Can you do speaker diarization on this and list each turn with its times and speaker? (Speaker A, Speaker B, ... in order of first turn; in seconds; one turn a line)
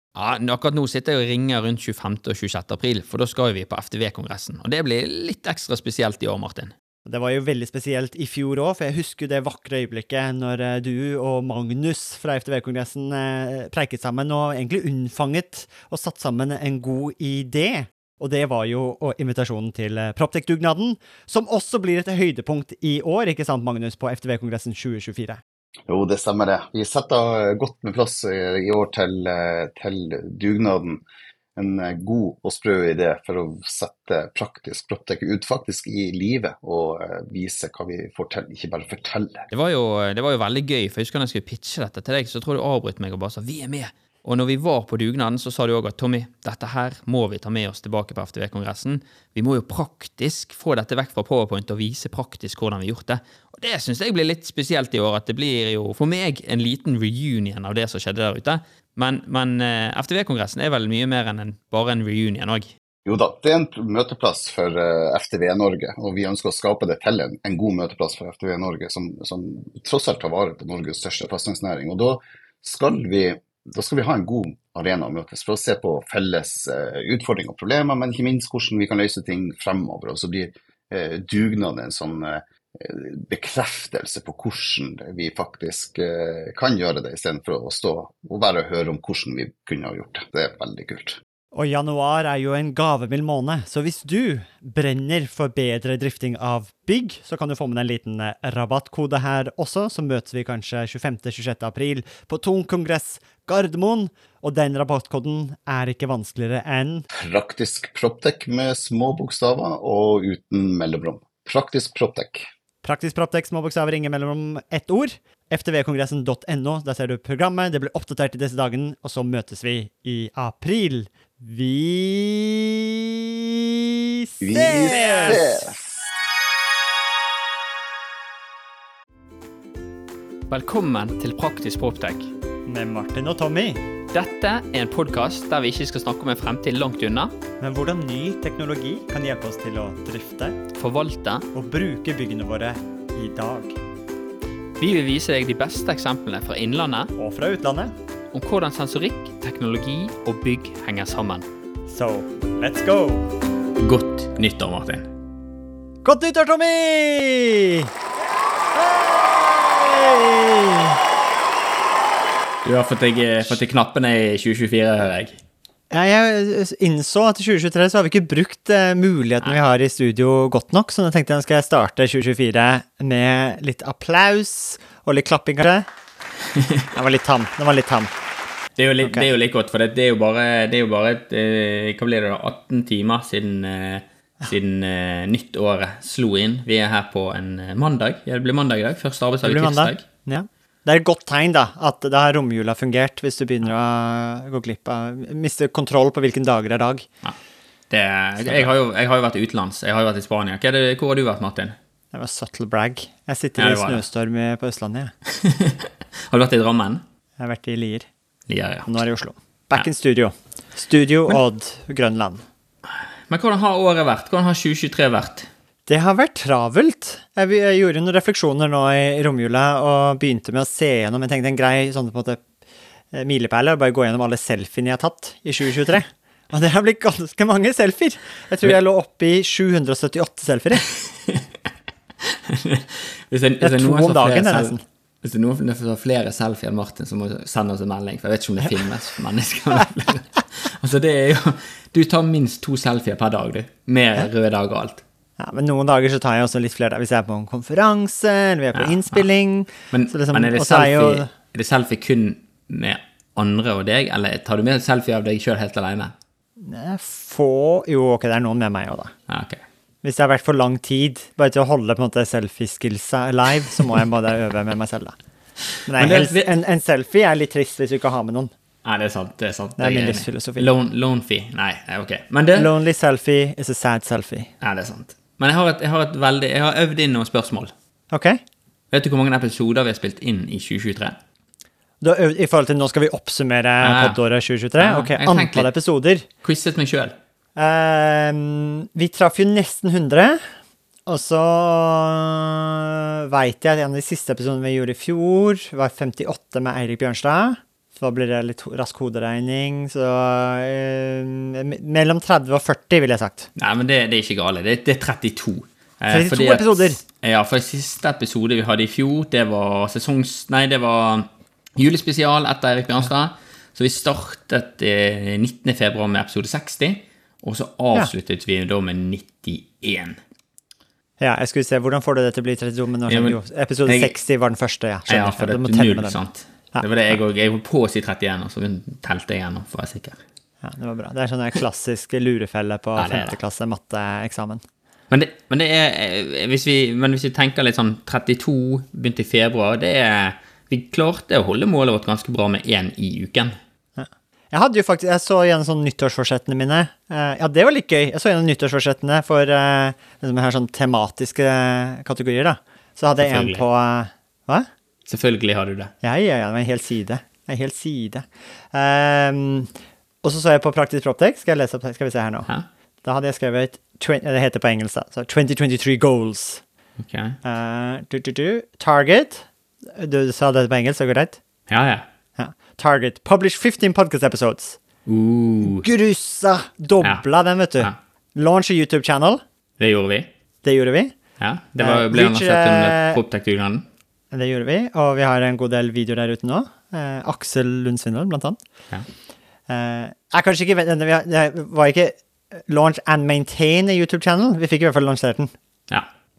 Speaker A: 0.1-6.7
Speaker B: 7.0-25.4
Speaker C: 25.9-31.0
Speaker C: 31.6-39.5
Speaker A: 39.5-62.7
Speaker C: 63.0-91.2
Speaker B: 91.5-107.1
Speaker C: 107.1-112.5
Speaker B: 112.8-125.7
Speaker C: 124.4-125.8
Speaker A: 130.5-132.3
Speaker B: 132.7-133.8
Speaker A: 134.1-137.3
Speaker B: 137.6-140.6
Speaker A: 140.7-141.5
Speaker B: 141.5-143.8
Speaker A: 144.8-147.1
Speaker B: 147.2-147.9
Speaker A: 148.3-151.4
Speaker B: 151.9-153.3
Speaker A: 153.8-155.1
Speaker B: 156.0-157.9
Speaker B: 158.7-161.0
Speaker A: 162.6-165.4
Speaker B: 165.9-175.9
Speaker A: 176.5-176.9
Speaker B: 176.9-178.1
Speaker A: 178.8-190.0
Speaker B: 189.4-197.1
Speaker A: 197.9-201.8
Speaker B: 202.1-205.1
Speaker A: 203.6-204.0
Speaker A: 205.3-207.0
Speaker B: 207.4-208.1
Speaker A: 208.5-209.0
Speaker B: 208.9-212.4
Speaker A: 212.8-215.5
Speaker B: 215.9-222.4
Speaker B: 223.1-230.9
Speaker A: 232.2-245.0
Speaker B: 233.6-234.8
Speaker B: 245.4-251.3
Speaker A: 248.8-249.2
Speaker A: 249.9-256.1
Speaker B: 256.6-259.1
Speaker A: 259.3-259.6
Speaker B: 260.0-265.1
Speaker B: 265.8-268.5
Speaker A: 265.9-266.5
Speaker A: 268.8-272.7
Speaker B: 269.8-270.7
Speaker B: 272.5-274.5
Speaker A: 274.6-277.7
Speaker B: 278.1-278.4
Speaker A: 278.9-281.2
Speaker B: 282.0-286.2
Speaker A: 283.8-284.2
Speaker A: 284.8-285.7
Speaker A: 286.4-287.1
Speaker B: 287.6-290.4
Speaker B: 291.1-303.5
Speaker A: 303.6-320.2
Speaker B: 306.1-307.0
Speaker B: 321.2-326.2
Speaker A: 323.1-324.1
Speaker A: 325.1-330.2
Speaker B: 330.6-334.6
Speaker A: 333.0-333.3
Speaker A: 335.1-343.6
Speaker B: 344.0-354.7
Speaker A: 353.2-353.6
Speaker A: 355.1-355.9
Speaker B: 356.0-359.7
Speaker B: 360.2-362.5
Speaker B: 363.0-366.6
Speaker A: 367.0-367.4
Speaker B: 367.4-371.4
Speaker A: 371.7-372.1
Speaker B: 372.4-374.8
Speaker A: 375.1-375.9
Speaker B: 375.6-379.4
Speaker A: 379.8-380.3
Speaker B: 380.6-381.1
Speaker A: 381.4-383.9
Speaker B: 381.8-383.2
Speaker B: 384.3-388.6
Speaker B: 389.7-395.5